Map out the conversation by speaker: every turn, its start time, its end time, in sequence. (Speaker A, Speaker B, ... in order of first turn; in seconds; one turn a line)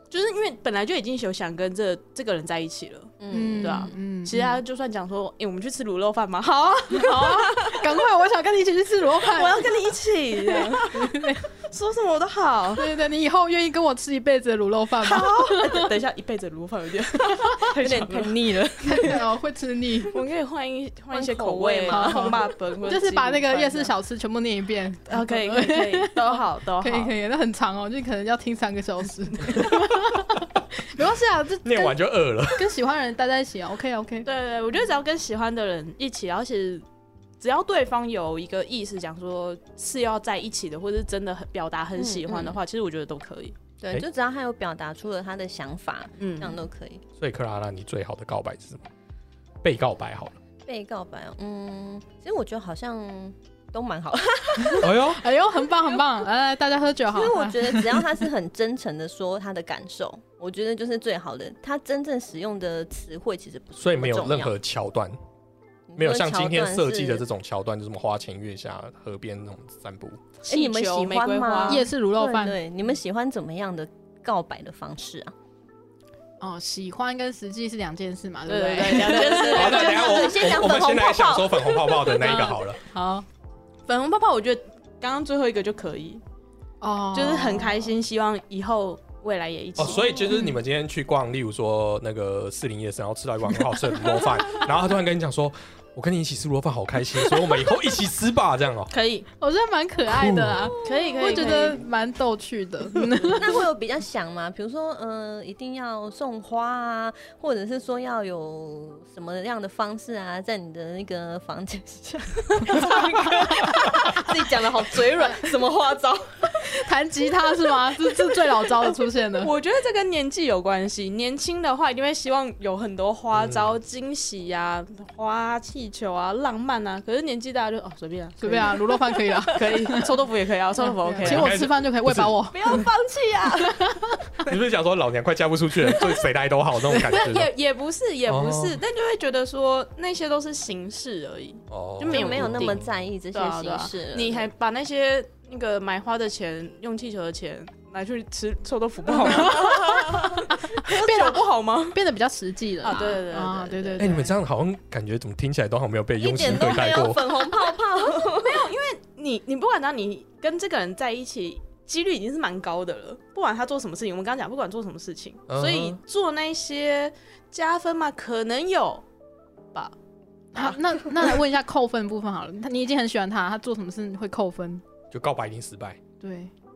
Speaker A: 0.1-7.9
Speaker B: 3.2-3.9
Speaker C: 3.3-4.6
Speaker C: 6.8-9.7
Speaker A: 9.2-12.9
Speaker C: 10.4-11.5
Speaker C: 12.8-15.9
Speaker A: 14.9-18.4
Speaker B: 17.6-19.3
Speaker C: 18.8-20.2
Speaker A: 20.1-23.9
Speaker B: 21.1-22.4
Speaker C: 21.9-26.2
Speaker A: 25.1-27.1
Speaker C: 26.8-32.0
Speaker D: 31.6-32.8
Speaker C: 32.5-34.3
Speaker A: 34.2-36.9
Speaker A: 37.4-43.6
Speaker B: 42.0-42.6
Speaker B: 43.8-47.0
Speaker A: 46.2-46.6
Speaker D: 47.2-48.9
Speaker D: 49.6-50.4
Speaker B: 50.6-54.9
Speaker C: 54.7-58.1
Speaker D: 54.8-55.2
Speaker B: 57.1-64.5
Speaker D: 63.8-65.2
Speaker B: 65.9-67.2
Speaker D: 66.0-70.2
Speaker A: 70.4-71.8
Speaker B: 70.5-75.3
Speaker C: 71.7-72.6
Speaker C: 76.4-79.8
Speaker A: 78.5-80.4
Speaker B: 78.9-82.2
Speaker D: 79.5-82.8
Speaker C: 82.2-83.2
Speaker A: 83.9-86.2
Speaker C: 86.8-87.9
Speaker A: 87.1-90.4
Speaker D: 89.8-98.9
Speaker C: 90.3-90.6
Speaker A: 98.9-99.3
Speaker C: 99.4-103.6
Speaker D: 100.1-100.7
Speaker B: 100.8-101.8
Speaker A: 100.8-101.8
Speaker B: 103.4-116.5
Speaker C: 113.2-113.7
Speaker C: 116.6-119.5
Speaker A: 119.4-129.0
Speaker D: 123.3-123.7
Speaker C: 128.4-130.1
Speaker B: 129.2-129.7
Speaker A: 129.5-131.6
Speaker C: 130.8-132.8
Speaker D: 131.2-132.4
Speaker B: 132.5-133.7
Speaker C: 133.6-134.2
Speaker D: 134.4-137.5
Speaker A: 137.0-152.0
Speaker D: 138.2-138.8
Speaker D: 141.7-142.9
Speaker B: 142.0-144.5
Speaker C: 149.3-154.3
Speaker A: 152.8-154.2
Speaker D: 154.0-157.3
Speaker B: 156.2-158.6
Speaker A: 158.0-169.0
Speaker D: 165.5-166.0
Speaker C: 170.5-174.8
Speaker D: 175.1-176.0
Speaker C: 176.2-176.5